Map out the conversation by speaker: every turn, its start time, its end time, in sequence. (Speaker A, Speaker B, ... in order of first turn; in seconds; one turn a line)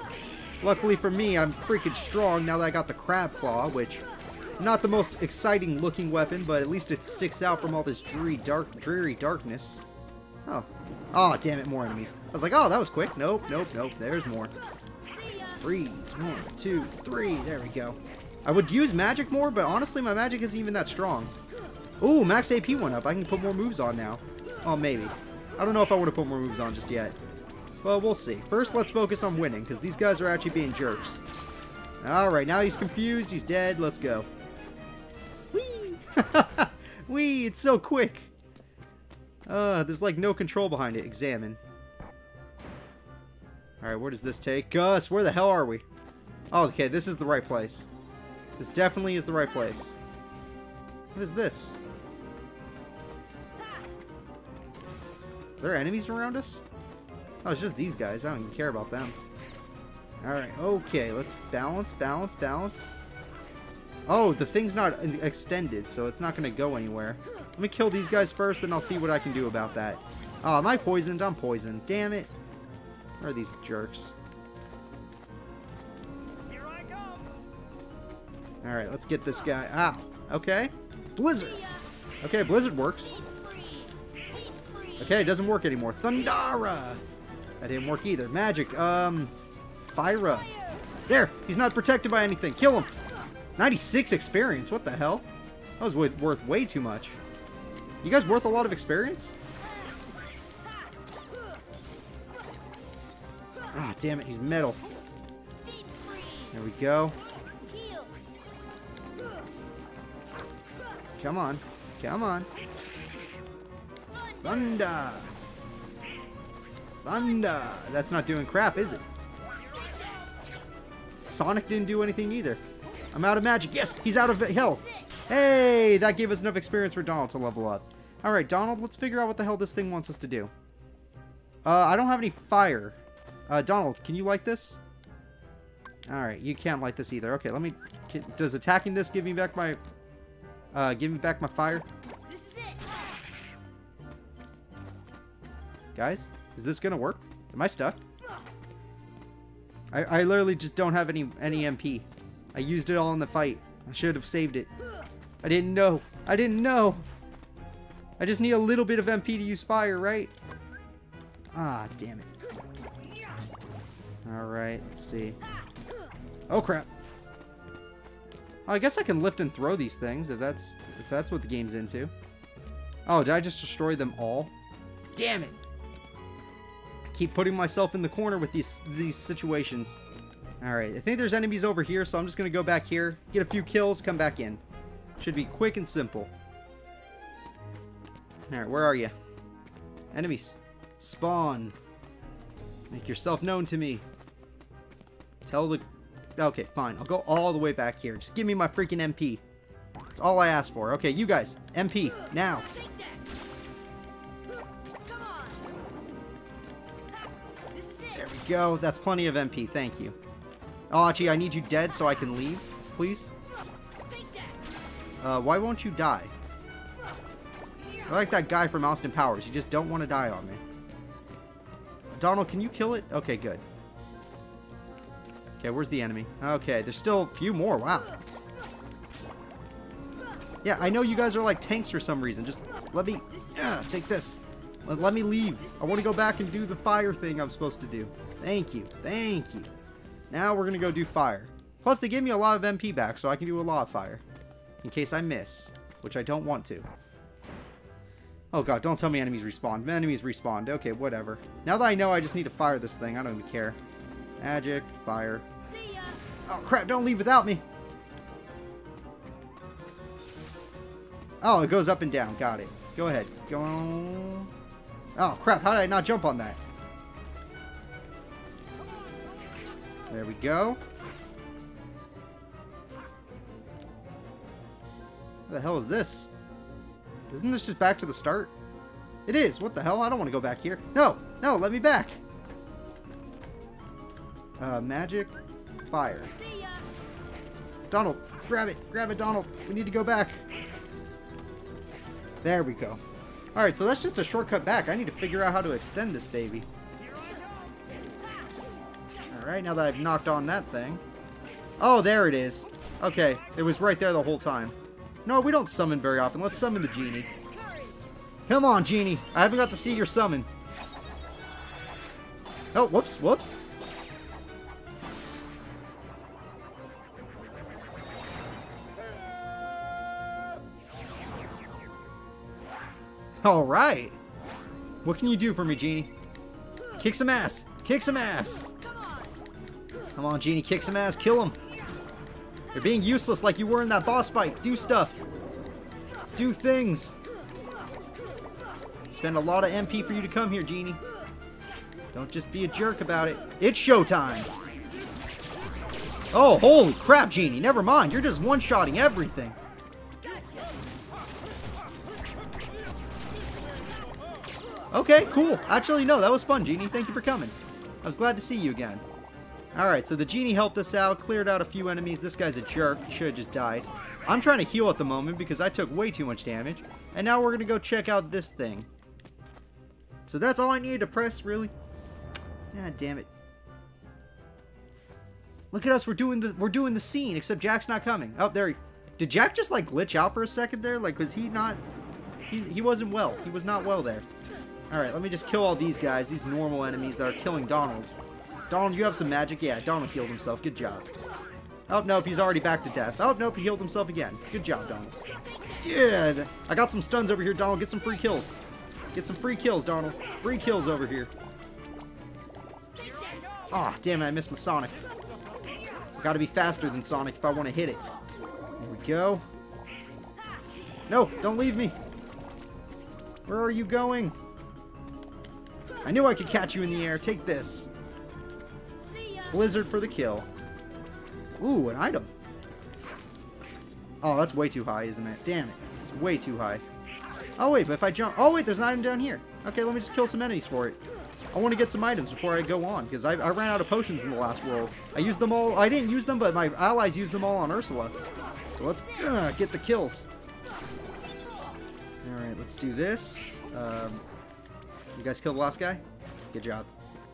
Speaker A: 0.6-4.0
Speaker A: 4.6-9.9
Speaker A: 10.5-14.5
Speaker B: 15.2-15.5
Speaker A: 15.6-21.3
Speaker A: 22.0-27.2
Speaker A: 27.8-31.2
Speaker A: 32.0-34.3
Speaker A: 35.5-38.3
Speaker A: 39.5-41.6
Speaker A: 43.8-45.8
Speaker A: 46.5-47.9
Speaker A: 48.6-50.0
Speaker A: 51.1-51.8
Speaker A: 55.6-56.6
Speaker A: 57.4-59.2
Speaker A: 60.2-62.9
Speaker A: 64.1-72.3
Speaker A: 73.2-74.1
Speaker C: 76.4-77.4
Speaker A: 78.6-81.6
Speaker A: 82.2-83.1
Speaker B: 83.1-85.1
Speaker A: 85.0-87.0
Speaker A: 87.6-89.3
Speaker A: 89.9-90.5
Speaker A: 91.1-92.9
Speaker A: 93.6-95.3
Speaker A: 95.8-97.2
Speaker A: 98.0-99.3
Speaker A: 103.7-104.8
Speaker B: 105.6-106.5
Speaker A: 106.5-107.2
Speaker B: 107.6-108.2
Speaker A: 111.2-112.5
Speaker B: 114.1-114.8
Speaker A: 114.4-115.3
Speaker A: 117.0-119.0
Speaker A: 121.2-122.6
Speaker A: 123.1-130.5
Speaker A: 131.6-134.8
Speaker A: 136.1-139.8
Speaker A: 140.7-141.9
Speaker B: 142.3-143.2
Speaker A: 145.9-148.0
Speaker A: 149.9-154.7
Speaker A: 155.4-157.1
Speaker A: 158.2-160.3
Speaker A: 161.5-162.3
Speaker A: 164.2-165.4
Speaker A: 166.5-166.9
Speaker A: 168.7-172.1
Speaker A: 173.1-174.5
Speaker A: 175.2-175.6
Speaker A: 177.1-180.0
Speaker A: 180.6-184.6
Speaker A: 185.2-186.3
Speaker A: 188.5-189.1
Speaker A: 190.1-191.8
Speaker A: 192.9-194.0
Speaker A: 195.4-195.8
Speaker A: 196.4-199.4
Speaker A: 200.1-202.7
Speaker B: 205.1-205.5
Speaker B: 207.8-208.1
Speaker A: 208.1-210.2
Speaker A: 210.9-213.3
Speaker B: 214.1-214.6
Speaker A: 215.2-216.3
Speaker A: 218.1-220.6
Speaker A: 222.1-223.6
Speaker A: 225.6-228.1
Speaker A: 230.6-239.7
Speaker A: 240.3-244.2
Speaker A: 244.8-246.9
Speaker A: 248.5-253.8
Speaker A: 254.4-255.4
Speaker B: 255.6-256.2
Speaker A: 256.5-257.6
Speaker A: 261.4-264.5
Speaker A: 265.1-266.6
Speaker A: 270.1-270.8
Speaker A: 275.5-276.3
Speaker A: 277.3-278.5
Speaker A: 279.3-282.2
Speaker A: 284.6-285.3
Speaker A: 285.9-286.4
Speaker B: 286.5-286.8
Speaker A: 287.9-290.4
Speaker A: 292.4-293.0
Speaker A: 293.5-296.7
Speaker C: 297.0-298.1
Speaker A: 299.3-301.0
Speaker A: 301.8-307.3
Speaker A: 308.5-310.5
Speaker A: 312.7-313.6
Speaker A: 323.4-324.2
Speaker A: 325.0-326.1
Speaker A: 327.0-328.7
Speaker A: 330.2-331.6
Speaker A: 332.7-335.2
Speaker A: 336.4-337.1
Speaker A: 339.1-341.0
Speaker A: 342.1-344.5
Speaker A: 346.3-349.6
Speaker A: 354.9-359.0
Speaker A: 359.7-368.9
Speaker A: 370.3-371.7
Speaker A: 372.7-373.3
Speaker A: 375.7-381.8
Speaker A: 382.5-384.2
Speaker A: 384.9-388.1
Speaker A: 388.7-391.1
Speaker A: 391.9-395.1
Speaker A: 395.8-398.6
Speaker A: 399.1-401.3
Speaker A: 403.7-405.0
Speaker C: 405.0-406.1
Speaker A: 406.2-408.0
Speaker A: 408.8-409.4
Speaker A: 411.1-412.0
Speaker A: 413.5-414.4
Speaker A: 416.0-417.9
Speaker A: 419.5-420.5
Speaker A: 421.6-422.3
Speaker A: 424.2-426.8
Speaker A: 427.6-431.0
Speaker A: 431.5-438.2
Speaker A: 438.7-440.3
Speaker A: 442.2-444.2
Speaker A: 445.1-446.9